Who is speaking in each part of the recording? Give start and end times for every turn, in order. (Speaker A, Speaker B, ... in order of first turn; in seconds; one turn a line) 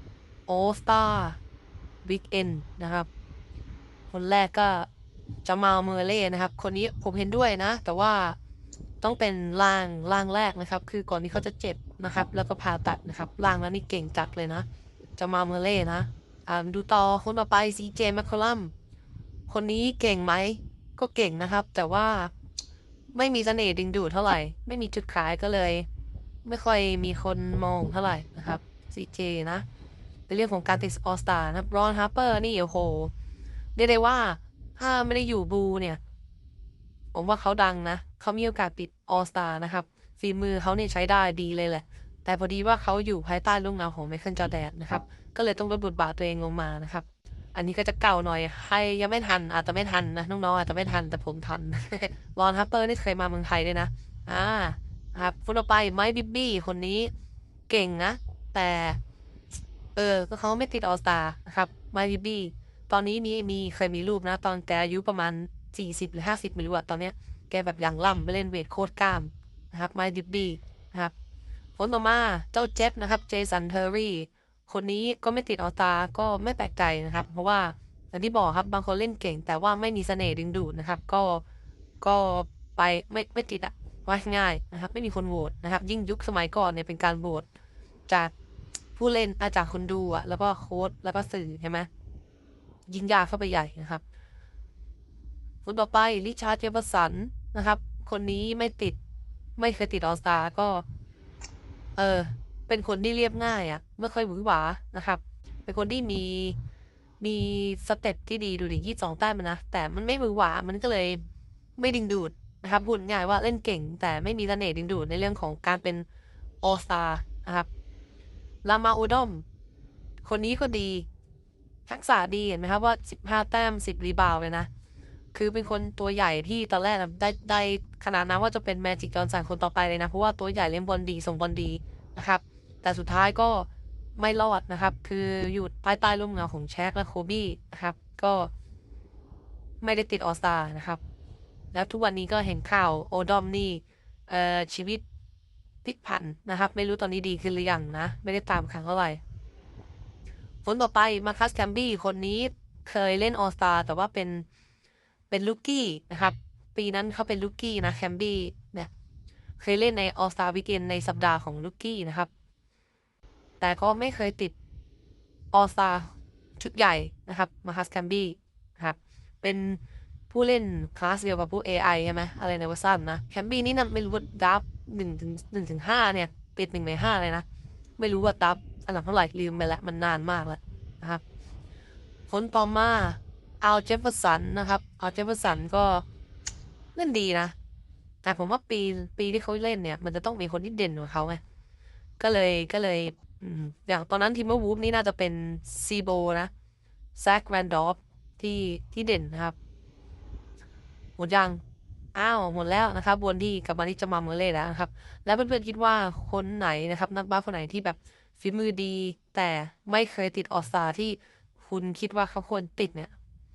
Speaker A: 0.5-1.4
Speaker A: 2.0-3.1
Speaker A: 4.1-4.9
Speaker A: 5.4-8.4
Speaker A: 9.0-14.6
Speaker A: 15.2-18.7
Speaker A: 19.5-22.3
Speaker A: 23.1-25.9
Speaker A: 26.4-29.6
Speaker A: 30.3-33.1
Speaker A: 33.8-36.0
Speaker A: 37.1-57.1
Speaker A: 57.7-59.0
Speaker A: 60.0-71.1
Speaker A: 71.8-81.4
Speaker A: 82.0-87.5
Speaker A: 89.0-91.9
Speaker A: 92.9-94.0
Speaker A: 95.6-99.0
Speaker A: 99.6-100.8
Speaker A: 102.0-106.6
Speaker A: 107.2-111.2
Speaker A: 111.8-116.0
Speaker A: 116.6-117.7
Speaker A: 118.6-119.4
Speaker A: 120.2-121.1
Speaker A: 121.9-124.7
Speaker A: 125.3-138.5
Speaker A: 139.8-141.0
Speaker A: 141.7-145.0
Speaker A: 145.8-149.2
Speaker A: 150.6-154.5
Speaker A: 155.3-158.9
Speaker A: 159.6-162.3
Speaker A: 163.6-164.6
Speaker A: 165.5-177.4
Speaker A: 178.0-181.2
Speaker A: 182.3-186.0
Speaker A: 186.9-187.6
Speaker A: 188.2-191.4
Speaker A: 192.2-196.5
Speaker A: 197.2-199.6
Speaker A: 201.2-201.6
Speaker A: 202.2-213.1